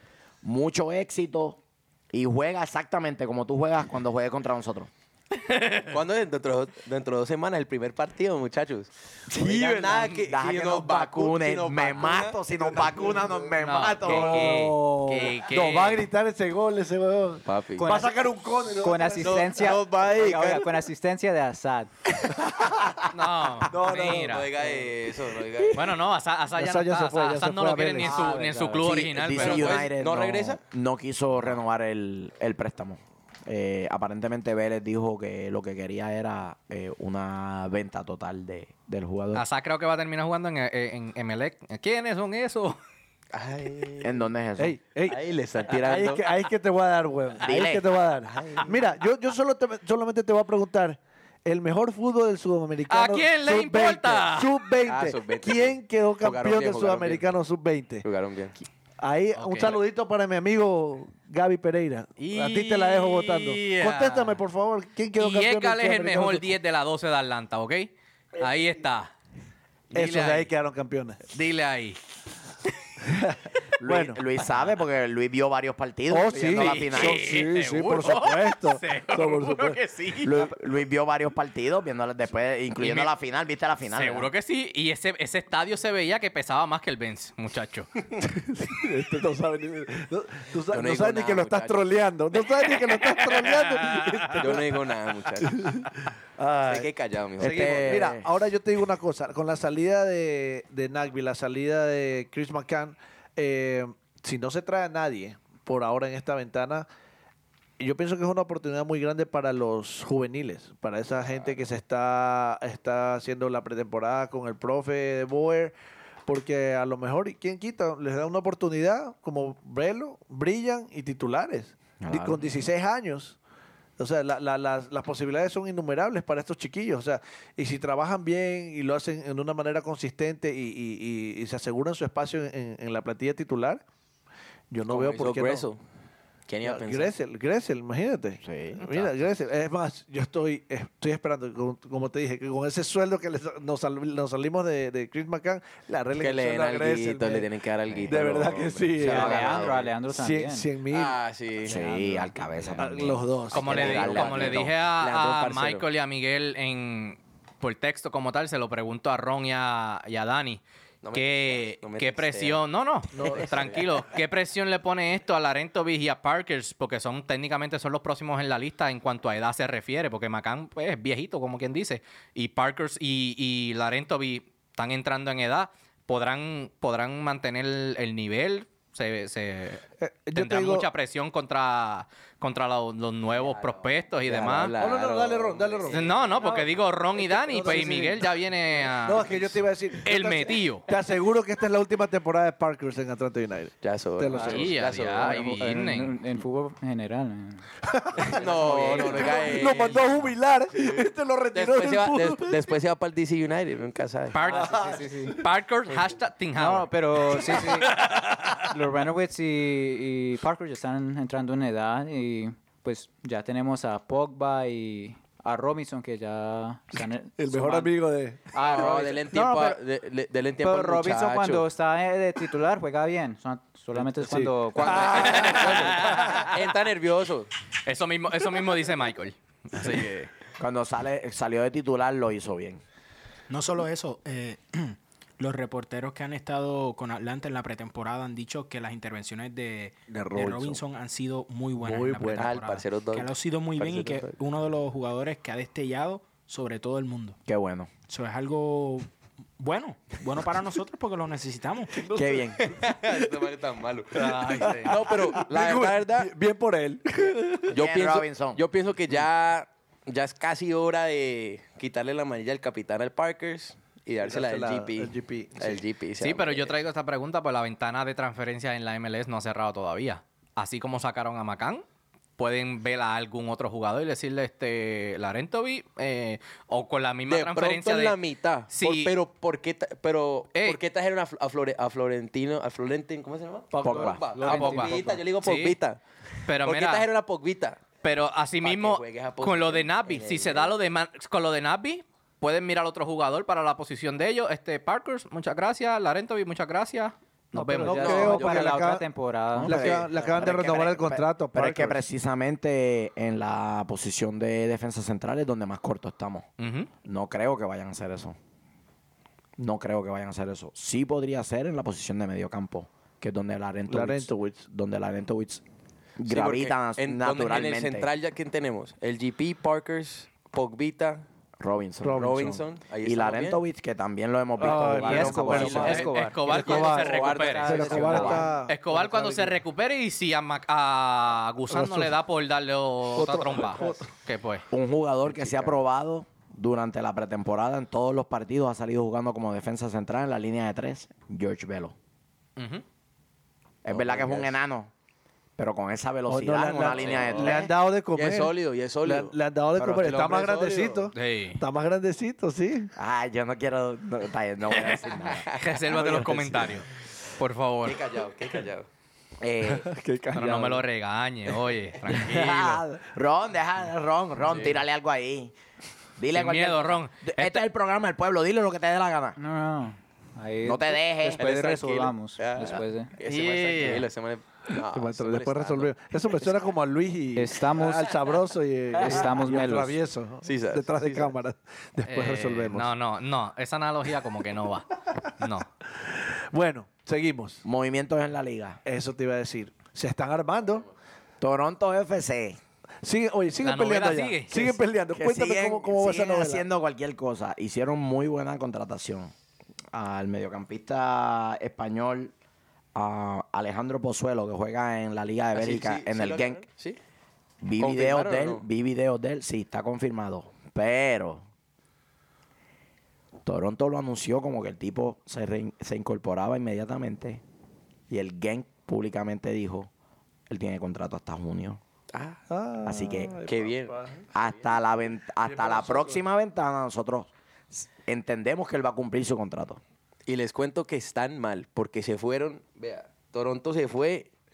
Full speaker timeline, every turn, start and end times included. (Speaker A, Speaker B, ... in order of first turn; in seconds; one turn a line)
Speaker A: 0.4-1.6
Speaker A: 2.1-4.9
Speaker B: 5.4-5.9
Speaker C: 5.9-13.0
Speaker A: 9.3-14.6
Speaker D: 12.8-19.7
Speaker B: 13.6-16.1
Speaker C: 17.5-18.0
Speaker E: 17.8-21.9
Speaker C: 19.2-20.7
Speaker B: 23.1-24.5
Speaker D: 23.6-24.9
Speaker C: 23.6-25.9
Speaker B: 25.7-29.9
Speaker D: 26.5-28.2
Speaker E: 28.0-28.9
Speaker A: 28.1-39.4
Speaker C: 29.2-30.6
Speaker B: 39.4-42.8
Speaker C: 43.3-44.2
Speaker A: 44.0-44.8
Speaker D: 44.6-58.1
Speaker C: 45.0-46.2
Speaker A: 47.4-47.8
Speaker C: 48.3-48.7
Speaker B: 52.9-54.5
Speaker C: 54.9-57.3
Speaker C: 58.0-58.6
Speaker D: 59.0-66.5
Speaker B: 59.4-59.8
Speaker B: 62.2-64.4
Speaker B: 65.2-69.1
Speaker B: 69.9-70.5
Speaker D: 69.9-71.2
Speaker B: 71.3-72.0
Speaker D: 73.0-74.2
Speaker A: 73.8-77.3
Speaker D: 76.1-79.8
Speaker B: 76.5-80.4
Speaker A: 80.2-84.3
Speaker B: 82.8-83.1
Speaker B: 83.9-87.9
Speaker D: 88.2-106.9
Speaker C: 90.7-91.9
Speaker B: 93.1-94.3
Speaker C: 94.4-95.7
Speaker C: 96.7-98.2
Speaker A: 97.4-98.2
Speaker D: 107.8-115.7
Speaker D: 116.3-123.4
Speaker A: 122.0-122.5
Speaker D: 124.0-133.8
Speaker D: 134.7-135.7
Speaker C: 134.9-135.8
Speaker C: 136.5-137.1
Speaker D: 136.6-147.5
Speaker C: 138.8-139.1
Speaker C: 146.2-149.7
Speaker D: 148.1-151.2
Speaker A: 149.0-149.9
Speaker E: 149.0-150.7
Speaker C: 150.9-151.8
Speaker E: 151.6-152.8
Speaker A: 151.6-154.7
Speaker D: 152.8-154.2
Speaker B: 153.5-160.6
Speaker C: 153.6-155.9
Speaker C: 161.0-162.6
Speaker B: 161.1-179.8
Speaker D: 163.1-163.7
Speaker C: 163.2-163.9
Speaker D: 180.0-180.9
Speaker B: 180.3-184.8
Speaker C: 183.3-186.7
Speaker D: 184.8-186.6
Speaker B: 185.9-190.9
Speaker E: 186.4-186.7
Speaker D: 187.1-188.3
Speaker D: 188.9-194.8
Speaker C: 193.8-195.5
Speaker E: 194.3-194.7
Speaker B: 194.4-196.2
Speaker E: 195.2-197.6
Speaker D: 197.9-202.6
Speaker C: 198.2-200.1
Speaker E: 198.3-199.8
Speaker C: 200.7-204.4
Speaker B: 204.3-206.9
Speaker E: 204.4-205.4
Speaker D: 204.4-205.4
Speaker E: 206.5-208.0
Speaker E: 208.7-217.9
Speaker D: 217.4-218.5
Speaker E: 218.5-219.8
Speaker C: 218.6-221.7
Speaker E: 220.6-225.6
Speaker D: 223.9-226.5
Speaker C: 224.8-227.5
Speaker B: 225.1-226.5
Speaker B: 227.8-230.3
Speaker A: 230.6-232.8
Speaker F: 233.5-247.4
Speaker D: 240.1-240.8
Speaker D: 241.8-242.5
Speaker C: 242.4-244.4
Speaker A: 247.5-247.9
Speaker F: 248.1-249.1
Speaker F: 249.6-251.9
Speaker D: 252.0-252.9
Speaker A: 252.1-252.6
Speaker C: 252.6-256.3
Speaker D: 254.2-257.7
Speaker B: 254.2-255.0
Speaker C: 257.7-266.8
Speaker A: 257.7-258.6
Speaker D: 264.2-265.8
Speaker B: 266.2-271.8
Speaker B: 272.4-278.2
Speaker C: 277.3-286.0
Speaker B: 278.7-279.1
Speaker D: 283.7-285.2
Speaker A: 283.8-284.2
Speaker B: 284.4-285.8
Speaker E: 284.5-285.0
Speaker B: 286.5-287.1
Speaker C: 286.6-287.9
Speaker B: 288.0-298.4
Speaker C: 288.6-290.7
Speaker E: 297.5-299.9
Speaker D: 297.8-299.1
Speaker C: 297.9-298.7
Speaker A: 299.6-306.5
Speaker D: 299.6-302.0
Speaker C: 299.7-300.5
Speaker B: 306.6-306.9
Speaker A: 307.0-308.4
Speaker A: 309.6-315.6
Speaker D: 313.9-314.6
Speaker A: 316.2-318.1
Speaker C: 316.2-321.2
Speaker A: 321.6-326.0
Speaker D: 322.0-322.6
Speaker C: 322.1-323.6
Speaker D: 324.6-329.6
Speaker E: 324.6-328.6
Speaker C: 325.4-328.5
Speaker B: 325.8-334.6
Speaker D: 331.7-332.1
Speaker D: 333.1-334.1
Speaker A: 334.7-341.9
Speaker B: 342.6-342.8
Speaker A: 343.8-344.9
Speaker C: 343.9-344.5
Speaker A: 345.6-347.7
Speaker D: 346.3-352.9
Speaker C: 346.9-349.4
Speaker A: 349.8-350.3
Speaker C: 349.9-351.1
Speaker B: 351.1-351.6
Speaker A: 353.0-355.5
Speaker B: 355.4-356.9
Speaker D: 355.9-356.7
Speaker B: 357.4-358.0
Speaker C: 357.8-358.9
Speaker A: 359.4-359.9
Speaker D: 359.6-360.9
Speaker B: 360.3-362.8
Speaker A: 362.1-365.5
Speaker C: 364.4-364.7
Speaker A: 366.2-369.4
Speaker B: 366.3-367.6
Speaker E: 369.4-373.1
Speaker A: 370.6-371.4
Speaker C: 371.4-376.5
Speaker B: 373.2-374.1
Speaker D: 374.8-382.9
Speaker E: 377.4-378.1
Speaker E: 379.0-380.0
Speaker C: 380.4-381.4
Speaker B: 382.1-384.9
Speaker B: 385.4-385.7
Speaker D: 386.0-387.6
Speaker A: 387.6-388.8
Speaker D: 388.9-390.9
Speaker A: 391.4-392.6
Speaker D: 393.0-396.6
Speaker B: 393.6-394.7
Speaker A: 394.6-399.3
Speaker A: 399.9-402.3
Speaker A: 402.9-406.6
Speaker C: 405.5-407.0
Speaker A: 407.6-411.4
Speaker C: 407.8-408.6
Speaker A: 413.4-417.4
Speaker A: 418.1-419.9
Speaker A: 420.5-421.8
Speaker C: 422.1-422.4
Speaker D: 422.5-424.2
Speaker A: 422.8-423.4
Speaker C: 423.5-424.0
Speaker A: 424.3-429.8
Speaker D: 425.4-426.2
Speaker C: 430.2-434.3